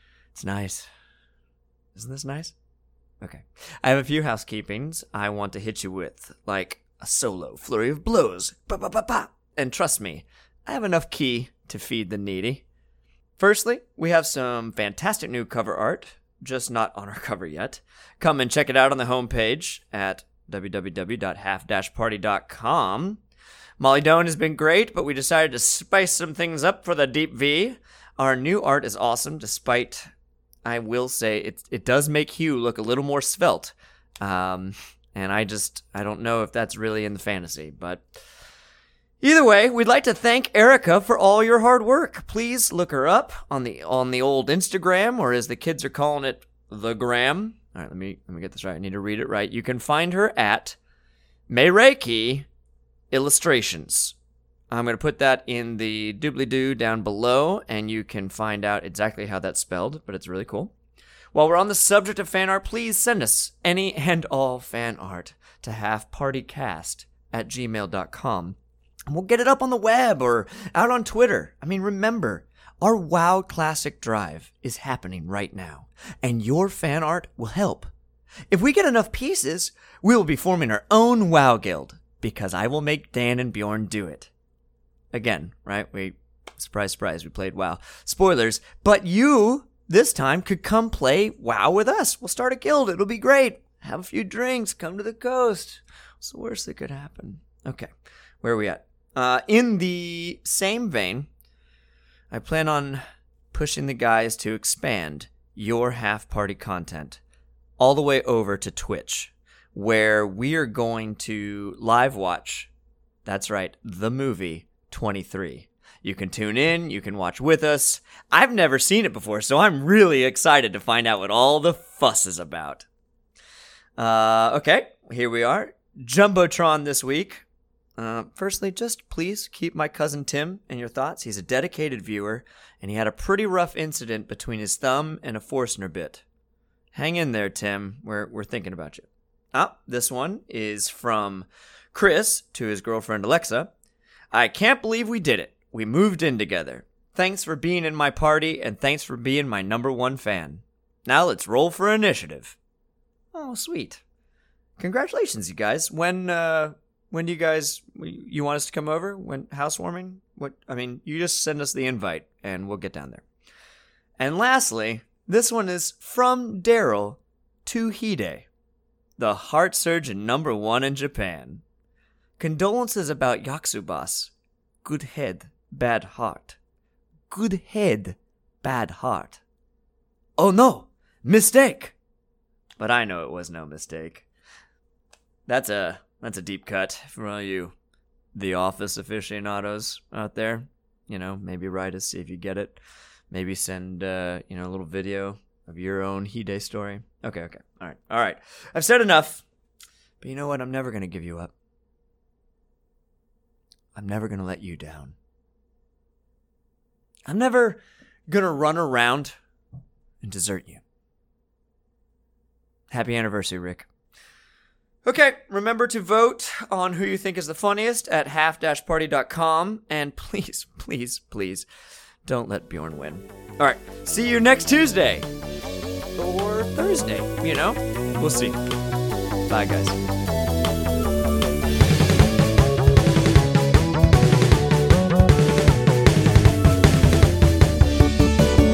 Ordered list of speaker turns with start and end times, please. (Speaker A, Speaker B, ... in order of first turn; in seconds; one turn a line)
Speaker A: 0.3-0.8
Speaker A: 1.9-2.5
Speaker A: 3.2-12.6
Speaker A: 13.4-23.2
Speaker A: 23.8-30.1
Speaker A: 30.6-38.0
Speaker A: 39.2-50.8
Speaker A: 51.5-52.5
Speaker A: 53.1-54.1
Speaker A: 54.7-60.7
Speaker A: 61.3-68.5
Speaker A: 69.1-77.9
Speaker A: 78.5-84.3
Speaker A: 85.1-97.9
Speaker A: 98.4-101.3
Speaker A: 102.3-103.0
Speaker A: 103.5-107.2
Speaker A: 107.8-112.7
Speaker A: 113.2-122.8
Speaker A: 124.0-127.4
Speaker A: 128.0-136.2
Speaker A: 136.9-143.7
Speaker A: 144.3-152.5
Speaker A: 153.3-154.0
Speaker A: 154.8-163.2
Speaker A: 164.2-168.4
Speaker A: 169.2-171.6
Speaker A: 172.4-174.3
Speaker A: 174.8-176.6
Speaker A: 177.3-179.4
Speaker A: 180.4-181.9
Speaker A: 182.8-184.2
Speaker A: 185.5-187.7
Speaker A: 188.3-192.8
Speaker A: 193.3-199.4
Speaker A: 200.2-201.5
Speaker A: 203.9-205.1
Speaker A: 207.3-209.3
Speaker A: 210.2-210.8
Speaker A: 212.9-213.9
Speaker A: 215.0-221.7
Speaker A: 222.2-225.3
Speaker A: 226.2-228.6
Speaker A: 229.5-230.0